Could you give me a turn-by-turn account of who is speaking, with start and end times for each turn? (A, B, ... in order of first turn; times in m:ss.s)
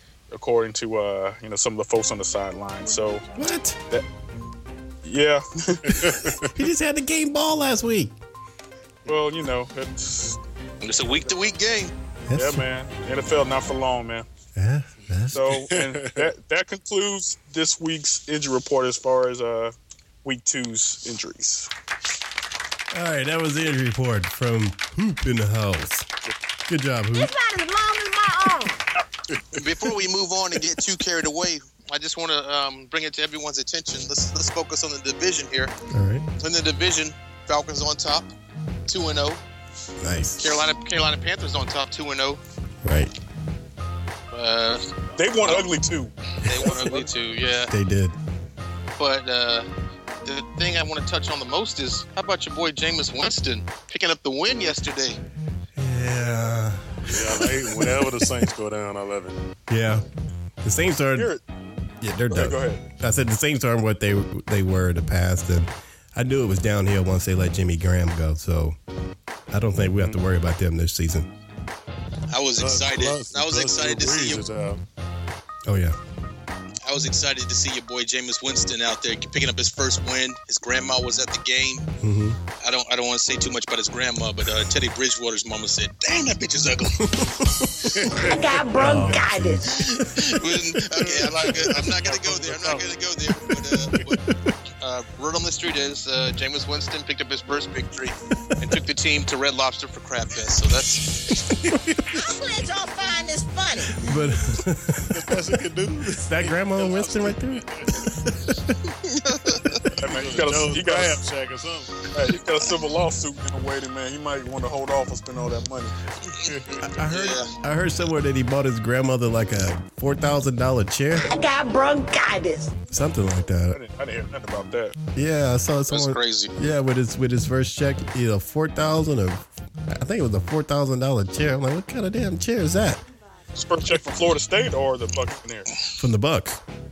0:00.3-0:03.2 A
0:03.3-0:03.8 B
0:05.0-0:06.2 A
0:06.0-0:06.4 C
0:06.5-0:08.1 B
0:09.0-0:10.4 A
0:10.8-0:11.9 D
0:12.3-0:12.6 B
0:12.3-0:14.2 A
0:14.6-0:15.4 B
0:15.3-0:21.7 A
0:15.4-0:16.3 C
0:22.9-0:26.1 B
0:26.7-0:27.3 B
0:27.1-0:28.8 E
0:29.5-0:35.7 D
0:35.9-0:36.3 B
0:36.4-0:38.3 D
0:38.9-0:39.4 D
0:40.0-0:40.6 B
0:40.4-0:42.4 D
0:42.8-0:43.1 B
0:44.3-0:45.7 D
0:45.2-0:47.1 A
0:46.4-0:47.7 D
0:47.7-0:48.2 B
0:49.0-0:49.7 D
0:50.2-0:55.2 D
0:55.8-0:58.4 B
0:57.0-0:59.4 C
0:59.7-1:00.0 B
1:00.6-1:01.3 B
1:01.2-1:01.4 A
1:02.0-1:08.8 B
1:02.3-1:02.8 A
1:09.5-1:11.3 B
1:12.3-1:14.4 D
1:12.6-1:14.8 C
1:15.6-1:16.0 B
1:16.8-1:21.9 D
1:22.0-1:22.4 B
1:22.6-1:27.1 D
1:27.1-1:27.9 B
1:27.9-1:28.3 C
1:28.2-1:29.7 E
1:28.8-1:30.3 B
1:29.7-1:34.2 D
1:30.9-1:32.9 C
1:34.8-1:41.3 D
1:41.6-1:42.0 C
1:42.1-1:44.1 E
1:43.9-1:45.5 B
1:45.1-1:48.1 C
1:46.0-1:48.8 B
1:49.0-1:49.8 D
1:49.9-1:52.0 C
1:50.0-1:51.2 A
1:52.1-1:55.9 A
1:56.4-1:56.8 C
1:56.8-2:01.4 B
1:57.0-1:57.5 D
2:01.2-2:02.8 E
2:02.9-2:03.8 B
2:03.7-2:05.0 A
2:05.1-2:13.0 B
2:05.9-2:06.5 D
2:13.5-2:15.7 A
2:16.0-2:16.6 B